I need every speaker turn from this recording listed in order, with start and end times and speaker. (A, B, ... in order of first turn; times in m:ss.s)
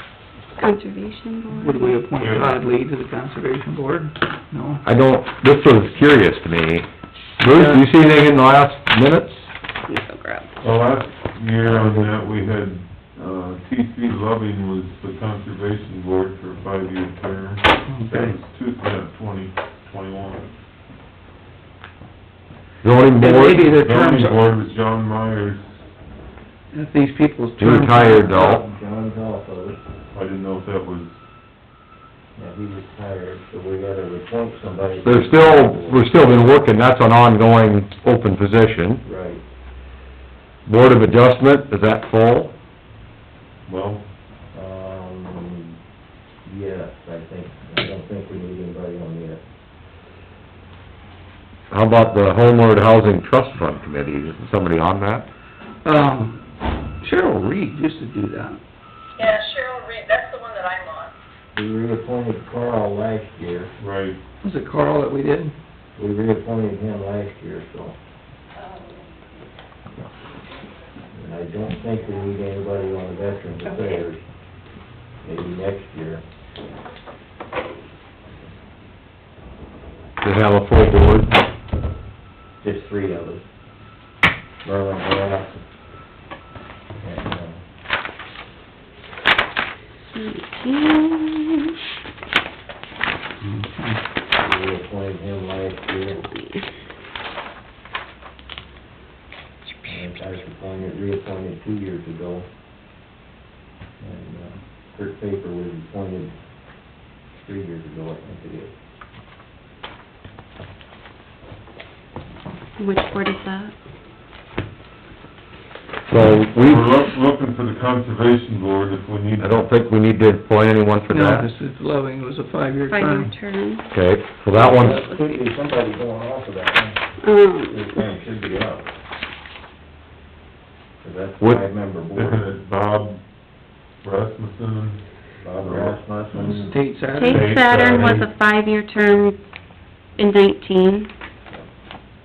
0:00.6-0:02.0 A
0:01.6-0:04.8 B
0:02.2-0:02.6 C
0:04.8-0:06.9 D
0:07.4-0:09.5 D
0:07.4-0:07.9 B
0:09.9-0:10.5 A
0:10.6-0:20.5 C
0:11.7-0:12.1 D
0:17.9-0:18.4 B
0:22.8-0:23.6 D
0:23.2-0:24.5 B
0:23.7-0:25.7 C
0:26.7-0:28.6 B
0:27.6-0:28.6 D
0:28.3-0:29.8 E
0:30.1-0:31.1 C
0:32.4-0:36.1 E
0:35.0-0:39.0 D
0:39.0-0:39.4 E
0:40.7-0:42.5 D
0:43.7-0:44.0 C
0:44.5-0:45.8 E
0:46.4-0:49.4 E
0:51.7-0:55.3 D
0:55.8-0:56.4 B
0:57.0-0:58.6 B
0:59.2-1:01.1 F
1:01.6-1:03.7 E
1:03.8-1:04.2 C
1:04.4-1:05.5 B
1:06.0-1:08.0 E
1:11.1-1:14.2 E
1:15.2-1:16.2 E
1:20.2-1:21.4 D
1:22.6-1:23.4 E
1:24.6-1:25.6 E
1:27.0-1:27.6 E
1:30.0-1:31.7 A
1:33.4-1:34.0 B
1:34.4-1:36.3 E
1:39.8-1:42.5 E
1:44.0-1:46.3 E
1:47.4-1:48.7 E
1:52.8-1:53.7 A
1:56.1-1:56.9 D
1:56.5-1:59.6 C
1:59.4-2:01.5 D
2:01.1-2:03.3 B
2:02.9-2:03.9 A
2:03.9-2:05.0 D
2:04.5-2:07.0 E
2:04.6-2:05.4 A
2:07.2-2:08.0 A
2:07.7-2:08.9 E
2:11.0-2:12.5 E
2:12.1-2:13.2 C
2:14.0-2:15.0 C
2:15.4-2:16.8 E
2:15.6-2:16.0 C
2:16.3-2:17.6 B
2:17.1-2:19.4 A
2:17.2-2:18.3 C
2:20.2-2:21.1 A